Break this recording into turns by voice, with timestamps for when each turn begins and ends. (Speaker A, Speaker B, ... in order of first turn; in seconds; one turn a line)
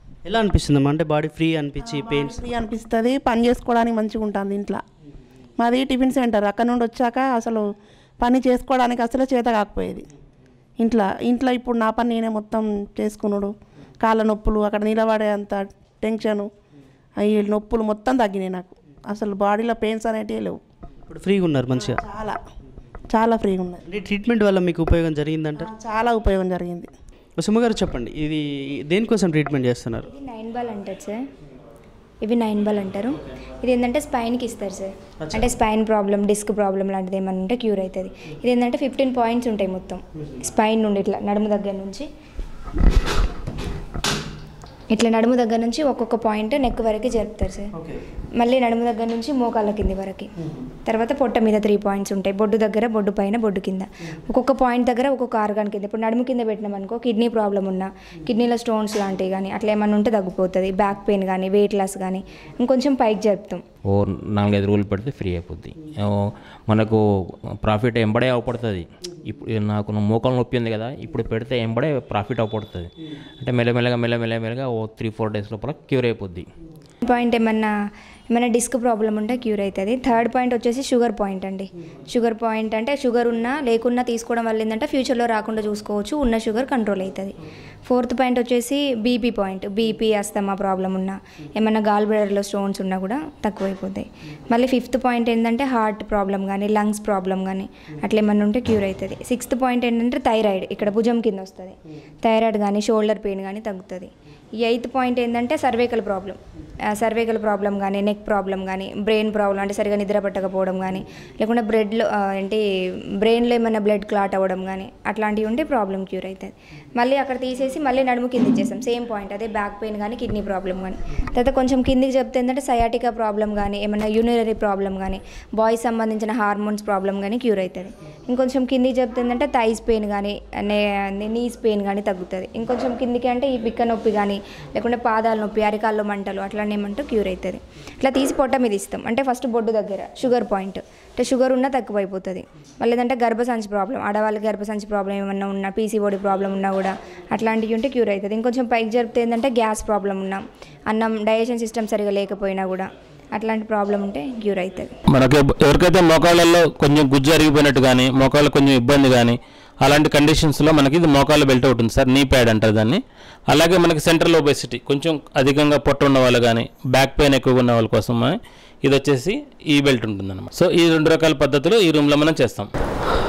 Speaker A: 0.3-2.5
Speaker B: 1.8-4.8
Speaker B: 5.6-7.7
Speaker B: 8.2-10.1
Speaker B: 10.8-16.5
Speaker B: 17.2-20.6
Speaker A: 21.1-22.0
Speaker B: 21.7-22.4
Speaker B: 23.1-23.8
Speaker A: 23.9-25.7
Speaker B: 25.6-26.9
Speaker A: 27.4-30.1
Speaker C: 30.1-31.2
Speaker C: 32.2-42.1
Speaker C: 44.9-47.7
Speaker C: 48.4-50.3
Speaker C: 50.9-63.6
Speaker D: 63.9-76.5
Speaker C: 77.0-77.7
Speaker C: 78.3-106.4
Speaker C: 106.9-112.6
Speaker C: 113.2-154.9
Speaker E: 155.1-172.7